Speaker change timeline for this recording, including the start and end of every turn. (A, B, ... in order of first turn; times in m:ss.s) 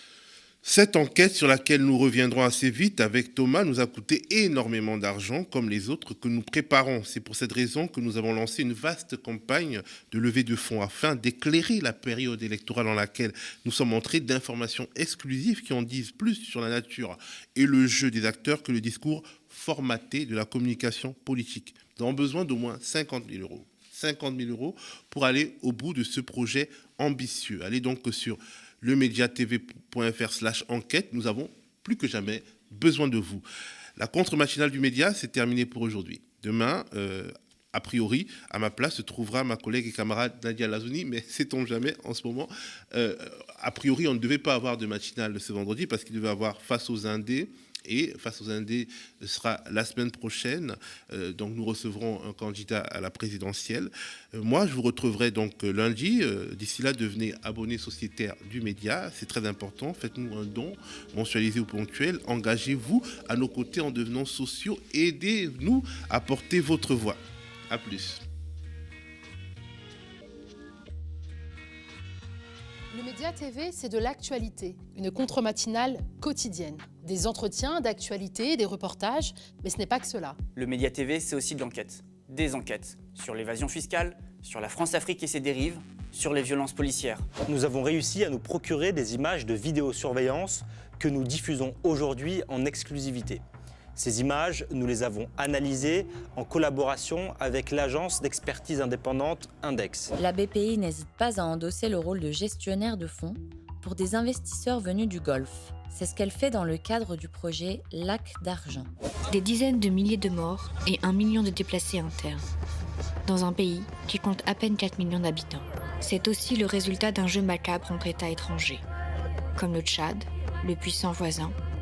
0:00.6-0:33.4 A
0:34.0-1:08.2 A
1:12.9-1:20.4 B
1:20.5-1:27.3 C
1:27.3-1:33.4 D
1:34.0-1:40.1 D
1:40.2-1:48.9 E
1:49.3-1:52.5 F
1:53.2-1:58.8 F
1:59.6-2:01.5 F